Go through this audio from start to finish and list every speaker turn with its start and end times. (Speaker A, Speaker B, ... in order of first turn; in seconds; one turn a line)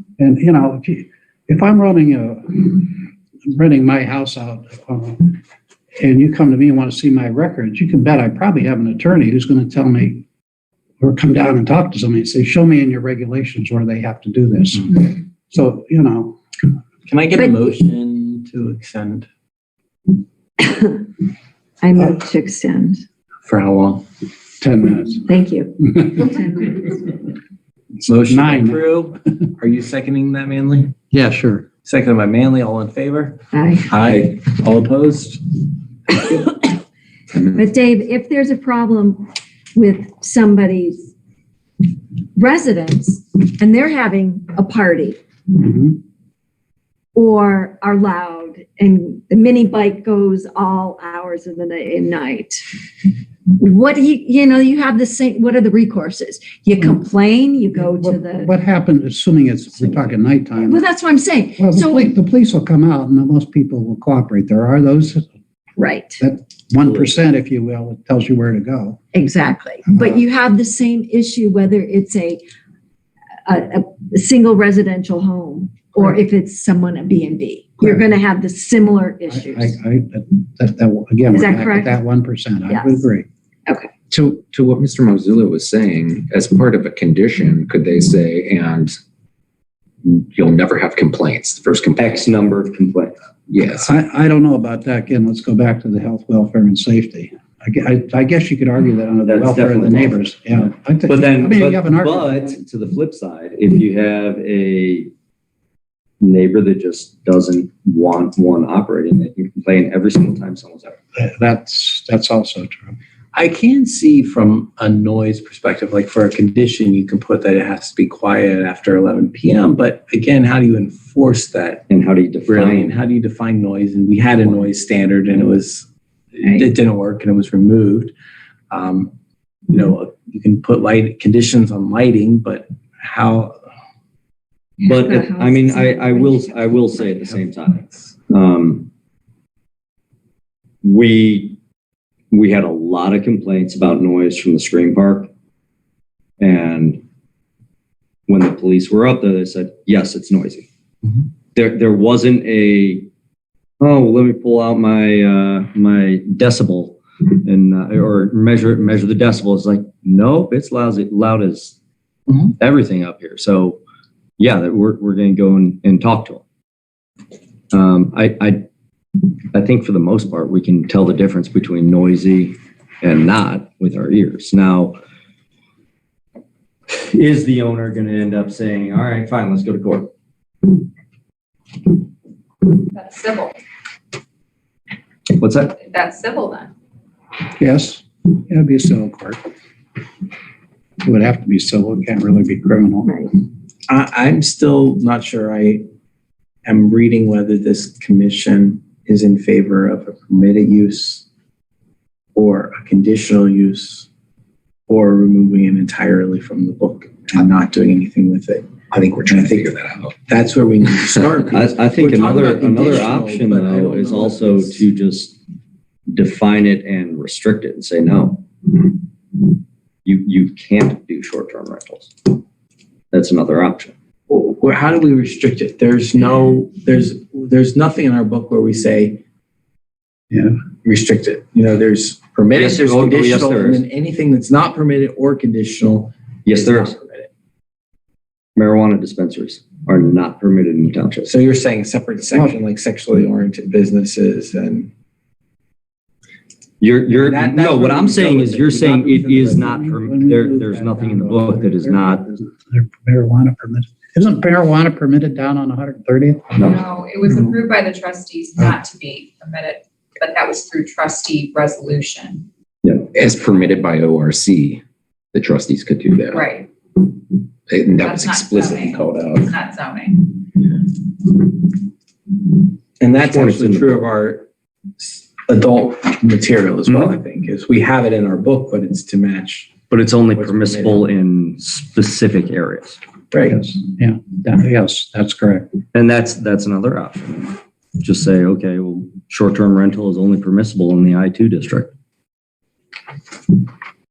Speaker A: 0.2-5.4
Speaker A: 6.0-10.2
Speaker A: 11.0-16.4
Speaker B: 17.0-19.3
Speaker C: 20.6-21.1
Speaker C: 21.8-23.0
Speaker B: 23.4-24.1
Speaker A: 24.6-25.3
Speaker C: 25.2-26.7
Speaker A: 25.8-26.2
Speaker B: 28.0-30.9
Speaker A: 28.2-29.1
Speaker A: 31.1-31.6
Speaker B: 31.8-35.7
Speaker C: 33.5-33.9
Speaker C: 37.5-41.1
Speaker C: 42.4-45.2
Speaker A: 45.6-45.9
Speaker C: 47.1-52.6
Speaker C: 53.5-58.5
Speaker A: 57.7-60.8
Speaker C: 60.6-62.0
Speaker A: 61.6-65.3
Speaker C: 65.8-66.2
Speaker A: 66.2-69.0
Speaker C: 69.1-72.4
Speaker A: 69.9-70.2
Speaker C: 73.5-79.7
Speaker A: 77.8-78.0
Speaker A: 79.3-83.3
Speaker C: 81.3-81.9
Speaker C: 82.7-83.1
Speaker D: 84.1-89.0
Speaker D: 90.0-92.2
Speaker E: 92.0-93.1
Speaker D: 93.5-93.9
Speaker A: 93.7-102.5
Speaker E: 99.2-105.1
Speaker E: 106.2-111.0
Speaker A: 111.2-113.0
Speaker B: 113.3-121.8
Speaker E: 121.9-123.0
Speaker B: 122.5-128.1
Speaker B: 128.7-129.1
Speaker B: 129.7-133.5
Speaker E: 134.8-138.9
Speaker C: 135.2-136.7
Speaker B: 137.8-138.1
Speaker E: 140.8-141.6
Speaker E: 142.3-145.3
Speaker E: 146.4-147.0
Speaker E: 148.3-150.7
Speaker E: 151.5-153.1
Speaker E: 153.8-161.7
Speaker E: 162.4-163.8
Speaker E: 164.4-166.4
Speaker E: 167.7-168.6
Speaker E: 169.5-174.9
Speaker E: 176.9-180.1
Speaker F: 182.9-183.6
Speaker E: 185.3-185.7
Speaker F: 185.7-186.7
Speaker A: 187.6-189.4
Speaker A: 191.0-193.2
Speaker C: 193.0-193.3
Speaker B: 193.9-195.8
Speaker B: 196.6-201.2
Speaker B: 202.3-204.1
Speaker B: 204.9-209.7
Speaker D: 208.9-210.2
Speaker B: 210.2-214.8
Speaker E: 211.5-215.4
Speaker E: 216.1-218.9
Speaker E: 220.0-222.4
Speaker E: 223.1-223.9
Speaker B: 224.3-229.2
Speaker B: 230.8-237.3
Speaker E: 232.5-233.8
Speaker E: 236.4-236.9
Speaker E: 238.6-241.3
Speaker B: 241.2-244.9
Speaker E: 246.8-252.2
Speaker B: 247.1-249.6
Speaker A: 249.2-256.6
Speaker F: 256.6-262.4
Speaker D: 263.1-264.8
Speaker D: 265.3-266.4
Speaker F: 266.3-266.7
Speaker D: 267.7-269.5
Speaker F: 268.0-270.4
Speaker B: 273.0-279.7
Speaker E: 273.2-274.0
Speaker E: 276.9-277.2
Speaker E: 279.9-283.0
Speaker B: 280.3-281.1
Speaker B: 283.3-283.6
Speaker A: 283.5-285.7
Speaker E: 285.9-291.9